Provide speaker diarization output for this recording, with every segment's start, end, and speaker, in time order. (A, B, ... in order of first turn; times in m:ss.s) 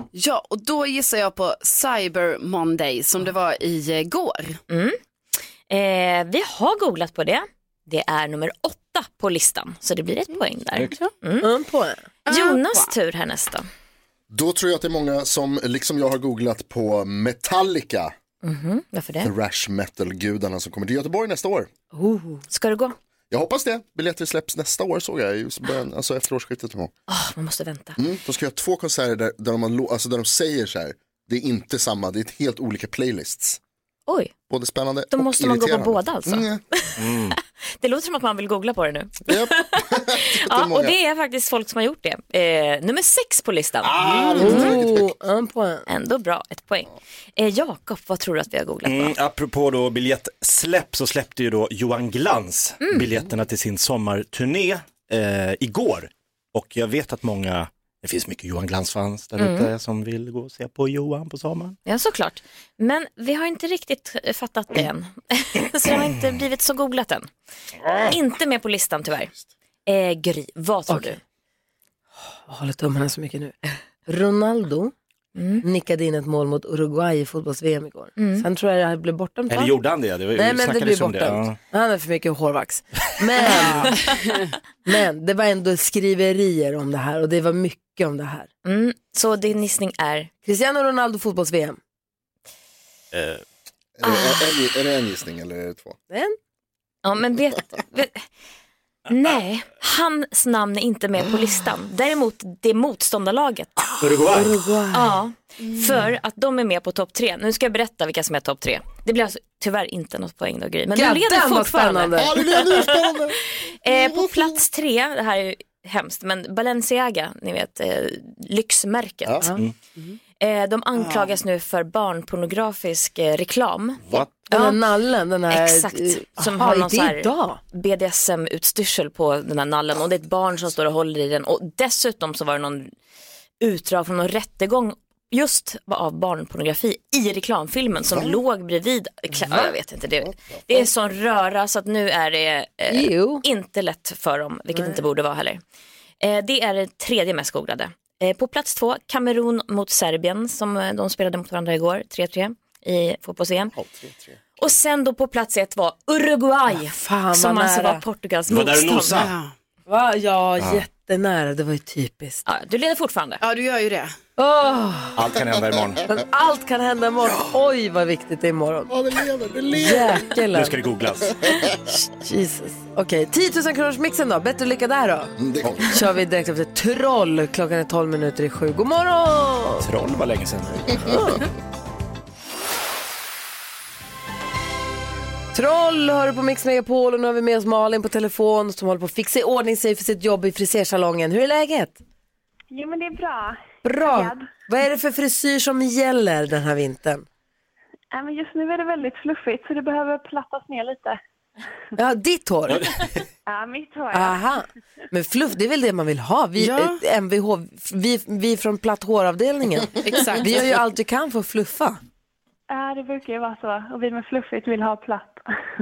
0:00.1-0:04.6 A
0:04.7-0:05.0 B
0:05.7-0:11.5 B
0:11.4-0:12.0 C
0:12.3-0:12.9 A
0:12.3-0:13.7 B
0:14.3-0:18.1 D
0:18.4-0:19.3 B
0:19.2-0:21.7 D
0:21.9-0:22.4 C
0:22.5-0:23.0 B
0:23.3-0:26.9 D
0:27.1-0:28.0 B
0:28.0-0:33.6 D
0:34.1-0:34.3 B
0:34.5-0:36.6 D
0:35.1-0:44.8 B
0:37.0-0:37.3 E
0:39.3-0:41.0 D
0:43.8-0:45.0 D
0:44.4-0:45.8 C
0:45.9-0:49.2 B
0:48.8-1:01.8 E
0:52.8-0:53.1 B
0:59.4-0:59.7 B
1:01.8-1:07.3 B
1:07.9-1:09.3 B
1:09.8-1:11.2 B
1:10.9-1:11.2 C
1:12.4-1:14.9 C
1:15.3-1:15.6 B
1:15.6-1:19.8 C
1:18.2-1:18.5 B
1:19.5-1:21.6 E
1:20.3-1:24.0 C
1:24.8-1:28.5 C
1:28.6-1:30.3 B
1:30.4-1:31.8 C
1:33.1-1:33.4 E
1:34.0-1:36.0 D
1:34.0-1:34.5 B
1:36.1-1:36.4 C
1:37.0-1:38.2 B
1:39.1-1:44.0 B
1:44.0-1:44.6 E
1:44.3-1:45.1 C
1:44.9-1:53.1 B
1:50.9-1:52.4 C
1:52.2-1:53.4 D
1:53.8-1:59.5 B
2:00.4-2:04.8 B
2:00.9-2:01.4 A
2:04.5-2:07.6 C
2:05.5-2:12.9 B
2:13.6-2:25.6 B
2:19.4-2:19.7 C
2:22.9-2:23.4 C
2:26.2-2:33.7 B
2:33.7-2:34.4 D
2:34.6-2:39.3 B
2:36.7-2:38.0 C
2:38.5-2:39.3 E
2:39.1-2:39.5 A
2:39.9-2:42.4 C
2:42.4-2:43.4 B
2:43.4-2:44.1 A
2:44.4-2:45.2 C
2:45.2-2:46.0 E
2:46.0-2:48.9 C
2:48.9-2:50.2 D
2:49.7-2:50.7 C
2:50.5-2:51.4 E
2:51.9-2:59.8 C
2:55.4-2:55.9 D
2:59.8-3:01.3 E
3:01.1-3:01.4 C
3:05.5-3:12.0 C
3:12.7-3:14.5 F
3:13.8-3:17.2 C
3:18.1-3:21.2 F
3:22.0-3:22.8 C
3:22.7-3:23.2 E
3:23.4-3:24.4 F
3:24.1-3:32.0 C
3:26.6-3:27.0 A
3:30.0-3:30.6 A
3:32.7-3:35.4 F